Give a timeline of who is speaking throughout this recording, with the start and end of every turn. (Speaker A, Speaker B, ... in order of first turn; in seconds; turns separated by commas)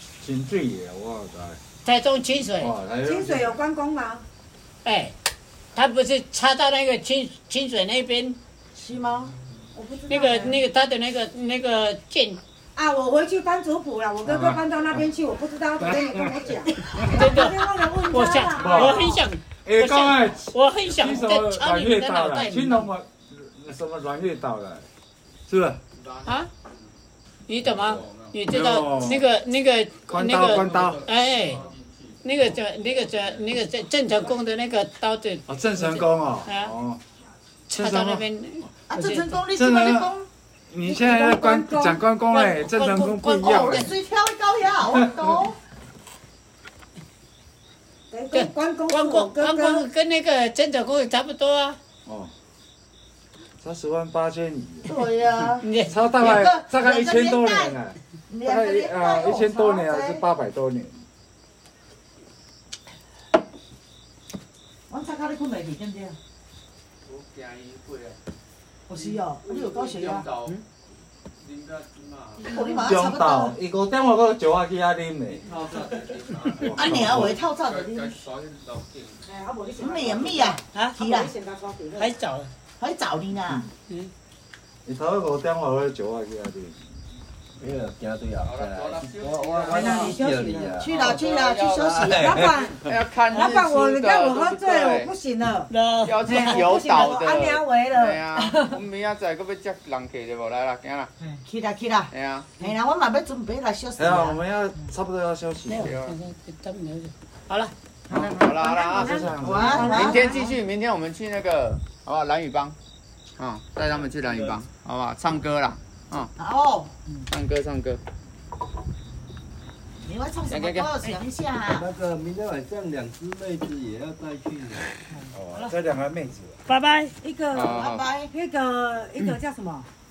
Speaker A: 0.2-1.6, Speaker B: 1.8-2.7, Speaker A: 2.6-3.6, Speaker C: 3.0-4.2, Speaker B: 4.8-5.2, Speaker B: 5.8-8.4, Speaker D: 8.8-9.3, Speaker C: 9.7-10.6, Speaker B: 10.1-12.4, Speaker C: 12.8-19.2, Speaker A: 14.2-15.0, Speaker A: 15.8-16.6, Speaker B: 17.0-22.9, Speaker A: 18.6-24.9, Speaker E: 20.9-21.2, Speaker A: 25.5-25.8, Speaker E: 25.9-26.9, Speaker B: 27.5-31.6, Speaker E: 27.6-28.4, Speaker A: 28.5-29.3, Speaker A: 30.1-31.0, Speaker E: 30.1-33.5, Speaker B: 32.2-36.7, Speaker A: 35.5-37.0, Speaker B: 37.7-39.4, Speaker A: 37.7-38.3, Speaker D: 38.9-40.3, Speaker A: 39.5-40.1, Speaker A: 40.7-43.9, Speaker C: 40.8-42.0, Speaker B: 42.3-43.9, Speaker D: 43.4-45.6, Speaker C: 48.1-49.9, Speaker B: 48.3-51.8, Speaker A: 52.1-52.3, Speaker A: 53.6-55.0, Speaker D: 54.9-57.8, Speaker B: 55.6-56.0, Speaker A: 55.9-61.0, Speaker D: 58.3-60.2, Speaker D: 64.9-66.2, Speaker E: 67.0-68.2, Speaker D: 68.9-70.3, Speaker E: 68.9-70.6, Speaker E: 71.4-72.6, Speaker D: 72.4-73.6, Speaker A: 72.8-75.4, Speaker E: 75.3-79.2, Speaker A: 76.6-77.4, Speaker D: 76.7-78.2, Speaker C: 79.2-82.2, Speaker D: 79.8-81.3, Speaker B: 82.0-82.5, Speaker D: 82.8-83.7, Speaker A: 84.8-86.8, Speaker F: 87.6-91.3, Speaker E: 88.4-90.2, Speaker C: 89.7-90.8, Speaker E: 90.8-95.1, Speaker D: 90.8-92.5, Speaker F: 91.8-92.1, Speaker A: 92.0-92.5, Speaker C: 92.0-95.7, Speaker B: 95.7-97.1, Speaker E: 96.0-101.1, Speaker C: 96.3-98.8, Speaker D: 101.5-104.4, Speaker E: 102.1-102.5, Speaker A: 104.0-106.0, Speaker B: 105.7-107.7, Speaker E: 105.8-106.2, Speaker C: 108.1-110.6, Speaker A: 108.1-110.1, Speaker E: 108.4-112.8, Speaker D: 109.4-110.4, Speaker E: 113.4-116.3, Speaker F: 114.2-114.6, Speaker D: 116.4-116.9, Speaker E: 117.3-118.0, Speaker D: 120.0-121.8, Speaker E: 120.5-120.9, Speaker F: 121.7-125.0, Speaker A: 125.3-126.6, Speaker B: 126.7-127.2, Speaker C: 127.2-129.9, Speaker E: 127.5-128.1, Speaker D: 127.6-128.3